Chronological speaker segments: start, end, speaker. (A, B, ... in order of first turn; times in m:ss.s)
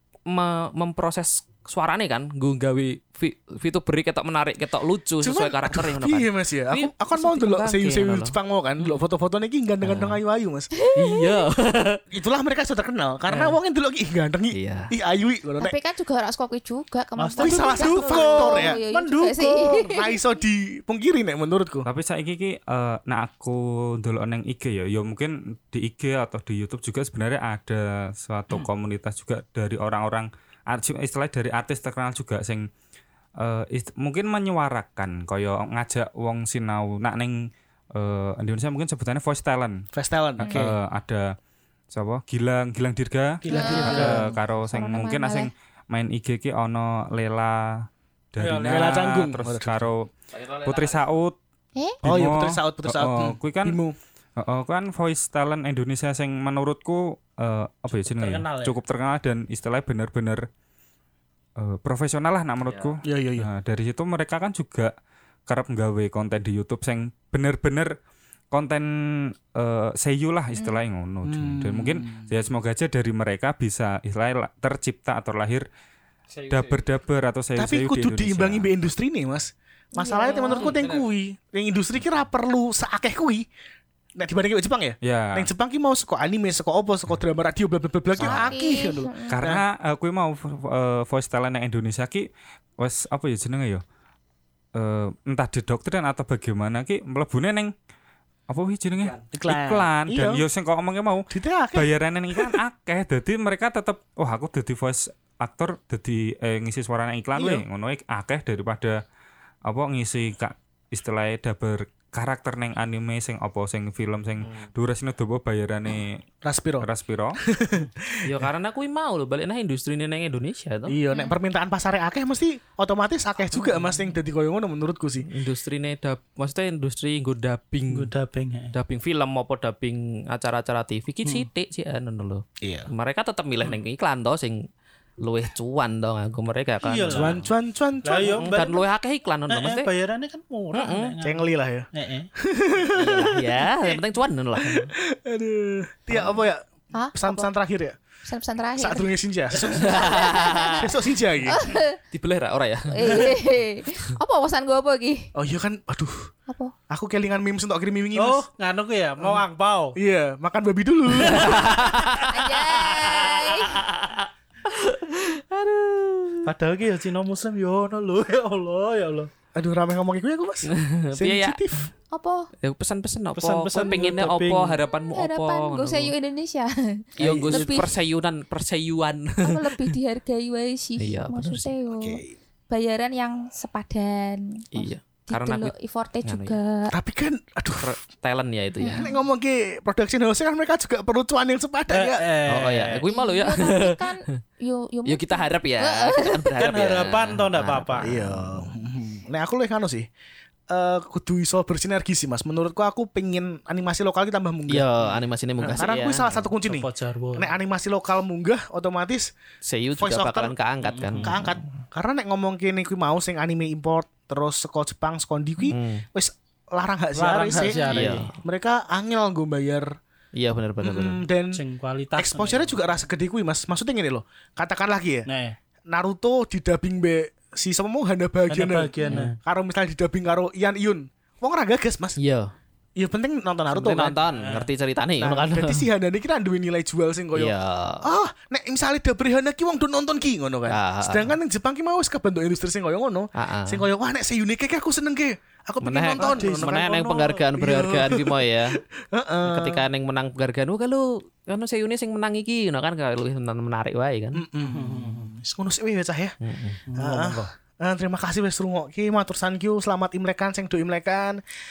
0:00.3-0:09.0 A
0:05.2-0:10.7 B
0:09.8-0:10.2 A
0:10.8-0:11.4 C
0:11.0-0:12.0 A
0:12.1-0:15.7 B
0:13.3-0:13.6 A
0:14.5-0:14.9 A
0:15.6-0:20.2 C
0:17.2-0:19.6 D
0:17.4-0:18.8 B
0:19.5-0:21.9 B
0:21.8-0:32.7 E
0:33.4-0:37.4 E
0:38.0-0:39.8 E
0:39.9-0:40.7 B
0:40.4-0:41.3 E
0:41.9-0:51.4 E
0:43.4-0:44.3 D
0:43.5-0:45.5 C
0:48.4-0:49.0 D
0:48.7-0:49.9 B
0:50.4-0:51.0 A
0:52.0-0:53.8 E
0:52.0-0:54.0 B
0:54.4-1:00.4 E
0:58.0-0:58.8 D
1:01.6-1:04.9 E
1:03.0-1:03.5 B
1:05.5-1:07.9 E
1:08.5-1:15.6 E
1:11.2-1:12.3 B
1:16.3-1:16.8 A
1:16.4-1:18.7 E
1:17.6-1:23.5 B
1:20.0-1:20.8 C
1:20.3-1:21.0 A
1:24.2-1:29.6 B
1:25.0-1:25.5 E
1:28.2-1:28.5 E
1:28.2-1:29.3 C
1:29.3-1:33.8 E
1:34.8-1:37.7 E
1:38.5-1:49.0 E
1:39.2-1:40.4 B
1:41.3-1:42.6 B
1:47.4-1:47.6 B
1:49.7-1:56.2 E
1:56.4-1:56.9 B
1:56.8-1:57.4 E
1:57.5-1:58.4 B
1:58.2-2:01.0 A
2:00.9-2:05.3 B
2:01.1-2:01.4 C
2:03.5-2:04.1 A
2:05.3-2:08.1 A
2:07.9-2:08.7 D
2:08.7-2:14.7 A
2:12.6-2:12.9 B
2:15.2-2:17.5 A
2:16.8-2:17.4 D
2:17.1-2:18.6 B
2:18.0-2:18.8 D
2:18.5-2:19.9 A
2:19.5-2:22.3 D
2:20.7-2:21.1 A
2:21.2-2:24.0 B
2:22.9-2:24.9 A
2:24.6-2:28.0 B
2:26.1-2:26.4 A
2:26.9-2:27.5 C
2:28.2-2:29.1 C
2:28.8-2:30.0 B
2:29.5-2:30.0 D
2:29.8-2:30.9 A
2:29.9-2:30.9 C
2:30.8-2:31.6 B
2:31.5-2:32.0 C
2:32.1-2:33.3 A
2:32.9-2:35.3 C
2:33.1-2:33.3 D
2:35.4-2:36.3 B
2:36.9-2:38.5 B
2:38.2-2:40.0 D
2:40.0-2:41.7 B
2:41.2-2:46.5 A
2:42.2-2:43.8 C
2:46.4-2:49.3 D
2:49.6-2:51.9 B
2:50.7-2:51.9 A
2:52.1-2:52.5 C
2:52.6-2:56.1 A
2:53.4-2:54.8 D
2:55.1-2:57.9 C
2:57.2-2:59.9 A
2:57.2-2:57.9 B
2:59.4-3:07.0 C
3:01.0-3:01.7 A
3:01.9-3:02.3 B
3:04.7-3:05.7 A
3:06.2-3:06.6 A
3:06.9-3:07.9 B
3:07.8-3:09.1 A
3:08.8-3:09.2 C
3:08.9-3:12.3 B
3:11.9-3:13.0 D
3:12.5-3:14.4 A
3:13.1-3:16.5 C
3:15.0-3:18.7 A
3:16.6-3:18.1 D
3:18.0-3:20.1 B
3:20.7-3:25.1 B
3:24.7-3:26.5 A
3:25.6-3:29.3 B
3:26.6-3:27.5 D
3:29.6-3:31.8 A
3:30.0-3:30.5 B
3:30.8-3:31.3 D
3:31.2-3:40.0 B
3:35.6-3:36.0 A
3:37.2-3:38.3 D
3:37.8-3:38.3 A
3:40.4-3:41.2 A
3:40.8-3:41.6 B
3:41.5-3:42.7 D
3:42.2-3:45.3 B
3:45.3-3:45.6 D
3:45.9-3:52.2 B
3:48.5-3:49.4 D
3:52.2-3:52.5 A
3:53.0-3:54.3 B
3:53.7-3:55.9 A
3:55.2-4:07.0 B
3:57.4-3:58.1 A
4:00.7-4:01.4 A
4:03.4-4:03.9 A
4:05.8-4:08.8 A
4:06.2-4:07.4 D
4:07.6-4:09.8 B
4:09.5-4:14.4 A
4:14.3-4:16.4 B
4:14.7-4:15.3 D
4:16.4-4:16.8 A
4:16.9-4:17.5 D
4:17.0-4:21.4 B